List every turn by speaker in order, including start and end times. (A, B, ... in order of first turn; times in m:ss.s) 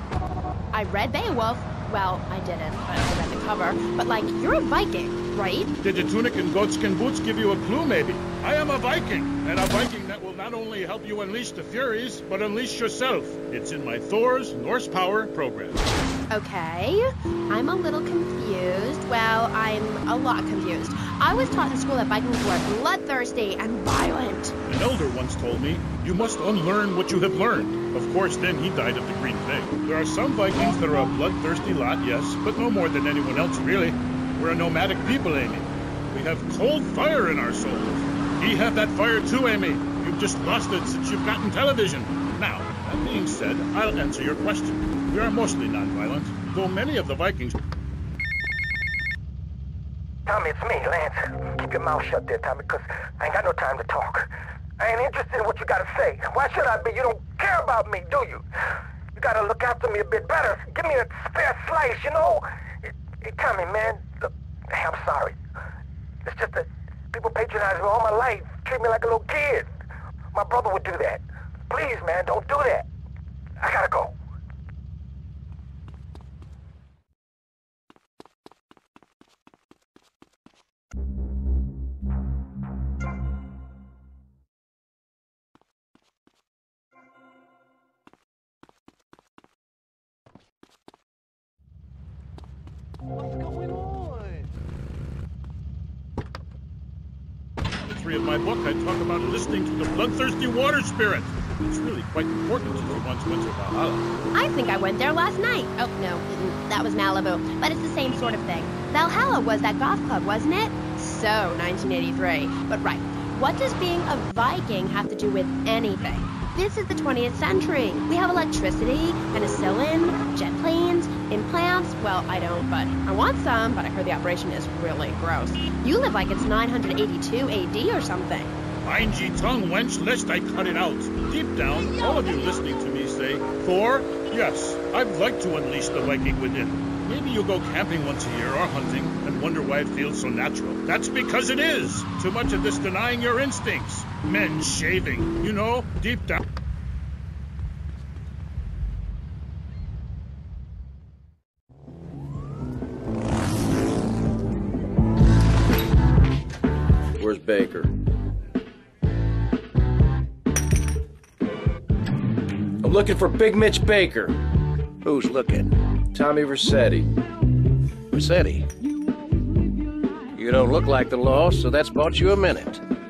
0:00.7-0:05.7 A
0:05.8-0:15.8 B
0:16.3-0:24.5 A
0:24.7-0:47.6 B
0:50.3-0:58.5 C
0:59.2-1:05.4 C
1:06.2-1:09.7 C
1:10.3-1:12.9 C
1:13.6-1:14.1 C
1:37.9-1:44.0 B
1:44.3-2:08.5 A
2:08.8-2:26.4 B
2:37.2-2:37.9 D
2:42.8-2:44.4 D
2:45.0-2:45.7 E
2:46.1-2:47.1 D
2:48.1-2:48.7 E
2:50.3-2:52.8 E